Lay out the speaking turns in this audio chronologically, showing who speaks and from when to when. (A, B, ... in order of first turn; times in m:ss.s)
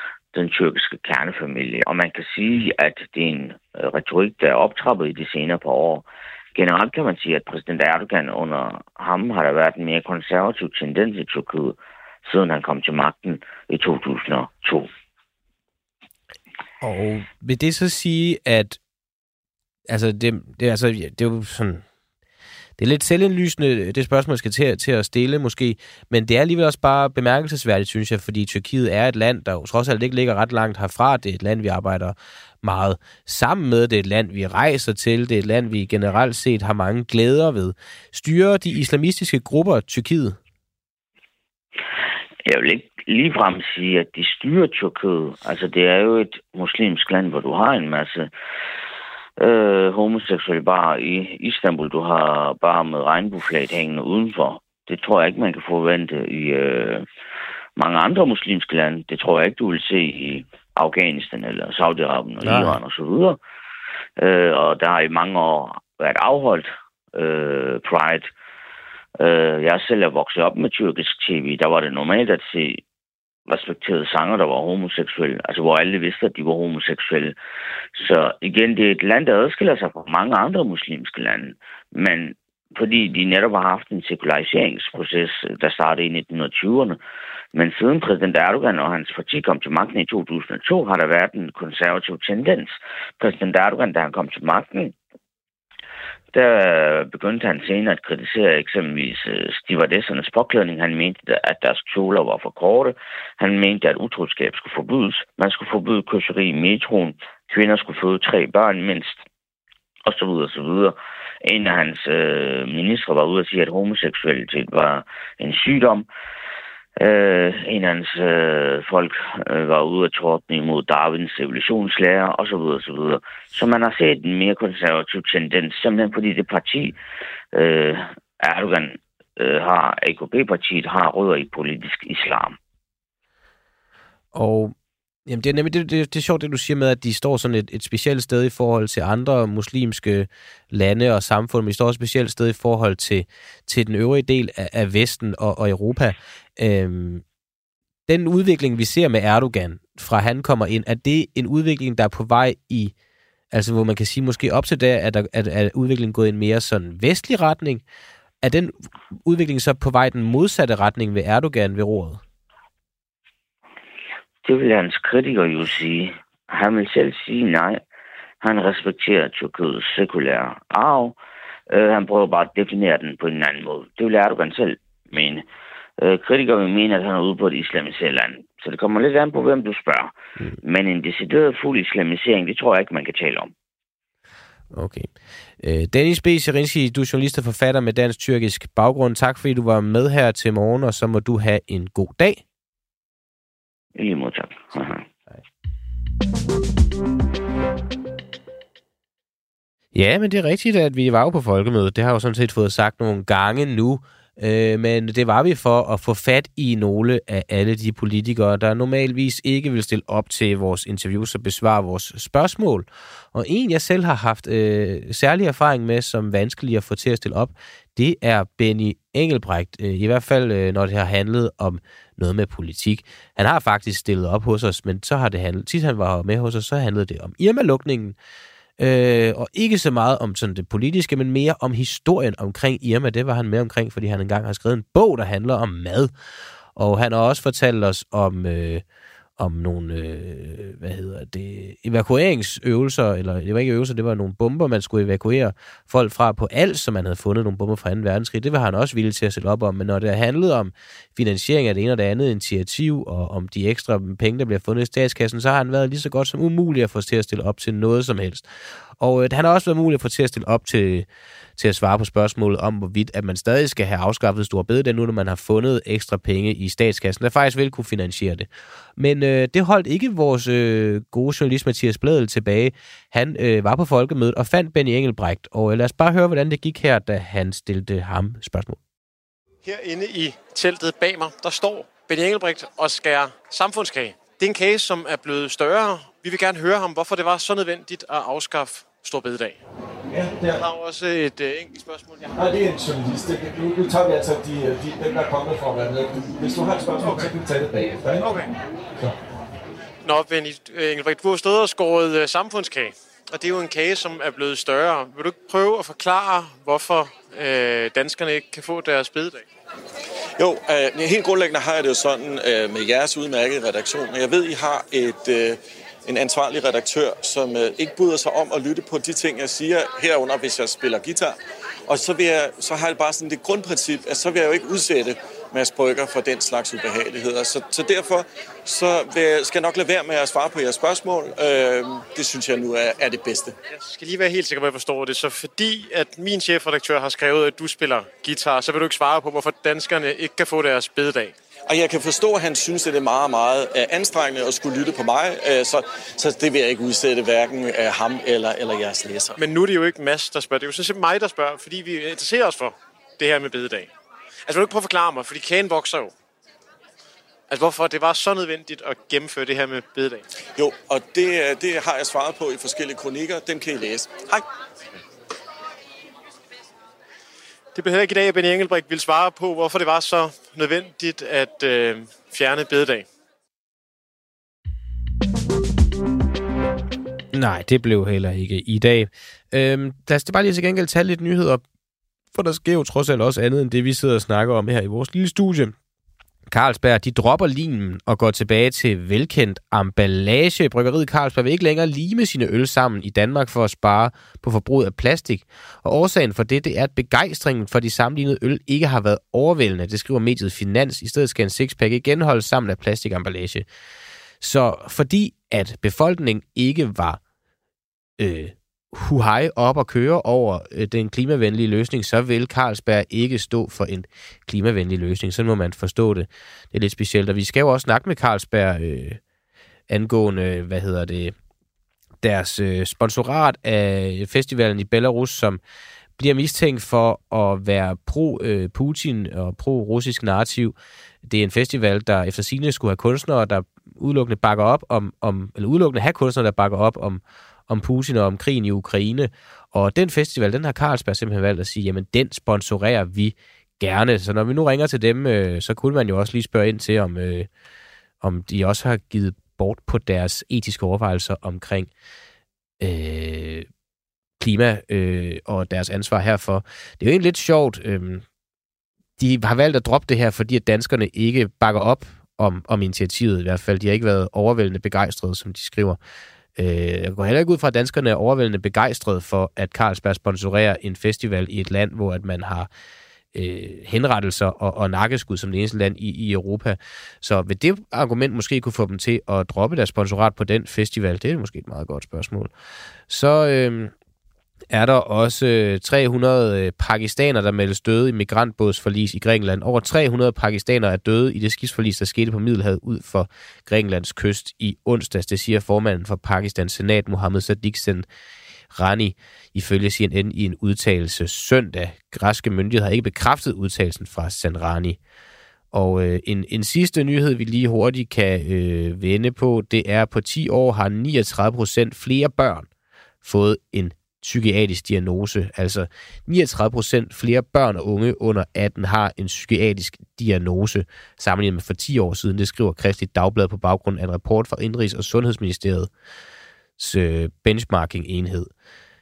0:00.3-0:14.9 A
0:16.8-0:18.8 B
0:19.9-0:21.8 B
0:22.8-0:40.4 B
0:42.4-0:48.3 A
0:49.4-0:57.1 A
0:57.8-1:03.4 A
1:02.4-1:02.8 B
1:04.2-1:08.3 A
1:09.2-1:12.8 A
1:13.5-1:17.4 A
1:17.9-1:27.0 A
1:27.5-1:35.0 A
1:36.3-1:49.2 A
1:50.0-1:56.1 A
1:57.0-2:07.0 A
2:07.5-2:12.6 A
2:14.3-2:14.7 B
2:15.3-2:27.2 B
2:28.1-2:32.9 B
2:33.5-2:37.8 B
2:38.4-2:42.2 B
2:44.4-2:47.8 A
2:48.4-2:51.2 A
2:51.7-2:55.5 A
2:56.0-3:03.5 A
3:04.7-3:05.1 B
3:05.6-3:12.4 B
3:14.0-3:15.0 A
3:19.9-3:48.2 B
3:48.8-3:56.1 B
3:56.8-3:58.8 B
3:59.4-4:18.5 B
4:19.0-4:38.8 B
4:39.6-4:49.6 C
4:50.1-4:50.6 D
4:50.5-4:52.3 C
4:52.4-4:58.3 D
5:00.0-5:09.5 C
5:10.4-5:33.6 E
5:33.7-5:41.4 C
5:41.7-5:49.4 E
5:49.4-5:53.9 C
5:54.5-5:56.1 C
5:57.5-6:00.2 C
6:00.6-6:04.5 E
6:07.7-6:13.1 C
6:17.3-6:21.6 B
6:22.3-6:25.8 B
6:26.5-6:43.6 B
6:44.4-6:47.2 B
6:48.2-6:59.2 B
6:59.9-7:01.4 B
7:02.2-7:05.6 B
7:06.2-7:10.8 B
7:11.3-7:27.5 B
7:28.2-7:31.9 B
7:32.8-7:33.7 B
7:34.4-7:38.2 B
7:39.2-7:46.0 B
7:46.6-7:52.7 B
7:53.3-8:02.5 B
8:03.1-8:03.9 B
8:04.7-8:18.0 B
8:18.7-8:25.0 B
8:25.7-8:32.7 B
8:33.2-8:45.9 B
8:46.8-8:48.5 B